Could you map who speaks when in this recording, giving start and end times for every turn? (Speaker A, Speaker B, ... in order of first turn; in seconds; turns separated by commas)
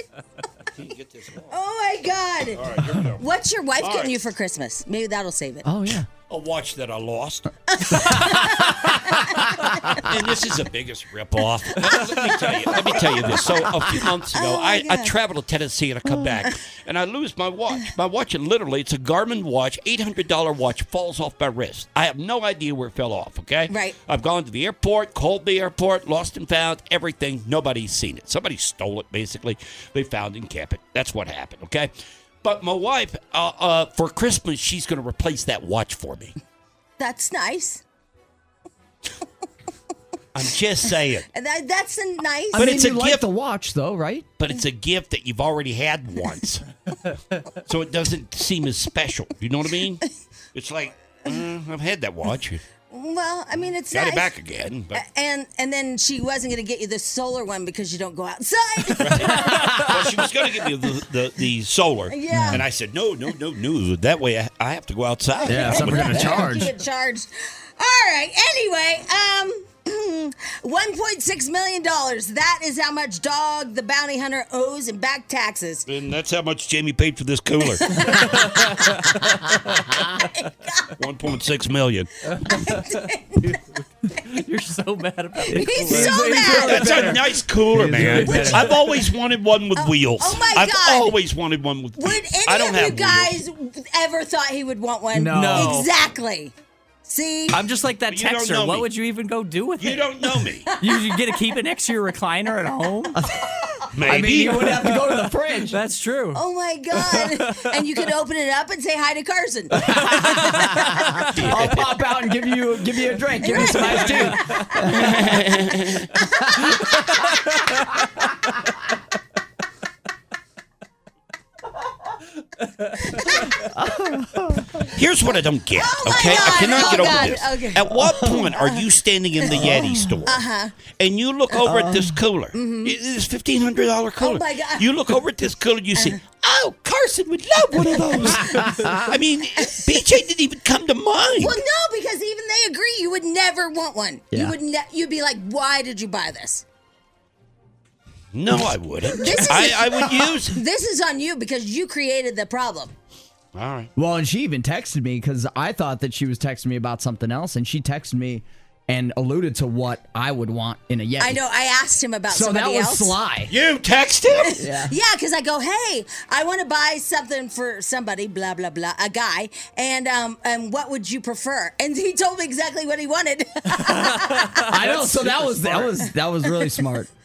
Speaker A: 0.7-1.6, Speaker B: 1.5-5.7, Speaker A: 2.5-3.2, Speaker A: 3.8-4.1, Speaker C: 5.6-6.1, Speaker A: 6.3-7.5, Speaker B: 7.7-10.1, Speaker C: 8.2-9.1, Speaker A: 10.0-31.9, Speaker B: 11.8-13.5, Speaker B: 14.3-15.1, Speaker B: 23.7-23.9, Speaker A: 32.4-36.3, Speaker B: 37.0-37.8, Speaker A: 40.3-41.3, Speaker B: 41.3-42.7, Speaker C: 42.5-44.3, Speaker A: 42.5-43.2, Speaker A: 44.4-46.6, Speaker A: 47.6-52.6, Speaker B: 52.9-54.3, Speaker A: 53.9-55.0, Speaker B: 54.9-59.9, Speaker A: 59.0-66.5, Speaker C: 59.5-59.8, Speaker B: 62.1-62.6, Speaker C: 62.3-62.6, Speaker B: 65.4-75.9, Speaker C: 65.5-66.7, Speaker A: 75.8-78.3, Speaker B: 77.8-79.1, Speaker D: 78.8-79.1, Speaker B: 80.1-80.9, Speaker A: 81.0-82.3, Speaker B: 82.5-83.6, Speaker D: 84.1-87.2, Speaker C: 85.5-88.7, Speaker B: 85.5-87.0, Speaker A: 86.5-93.3, Speaker B: 88.3-88.8, Speaker B: 89.8-91.2, Speaker B: 92.0-96.5, Speaker C: 95.1-95.9, Speaker D: 95.3-95.9, Speaker B: 97.0-97.6, Speaker D: 97.5-100.0, Speaker A: 98.1-98.9, Speaker A: 99.8-100.7, Speaker B: 100.7-101.2, Speaker D: 100.8-103.2, Speaker C: 103.2-105.8, Speaker A: 103.9-104.8, Speaker D: 105.6-106.4, Speaker B: 106.3-111.2, Speaker D: 107.0-107.7, Speaker D: 110.2-110.7, Speaker A: 111.3-111.8, Speaker C: 111.3-115.3, Speaker B: 113.4-115.1, Speaker A: 114.9-116.1, Speaker B: 116.2-117.1, Speaker D: 122.8-123.1, Speaker B: 123.1-123.5, Speaker C: 123.6-124.9, Speaker A: 124.9-130.4, Speaker B: 125.7-128.8, Speaker B: 129.4-129.7, Speaker C: 129.5-130.2, Speaker B: 130.2-130.7, Speaker A: 130.9-141.6, Speaker C: 131.6-132.2, Speaker B: 132.5-132.9, Speaker B: 134.2-134.9, Speaker B: 138.1-138.8, Speaker C: 138.2-139.0, Speaker B: 141.4-146.6, Speaker A: 148.3-150.6, Speaker B: 149.2-152.9, Speaker A: 153.5-153.9, Speaker C: 153.9-161.4, Speaker B: 161.2-163.2, Speaker C: 162.3-163.5, Speaker A: 163.5-164.6, Speaker B: 164.4-175.0, Speaker C: 164.6-164.9, Speaker D: 174.2-174.6, Speaker C: 174.7-177.1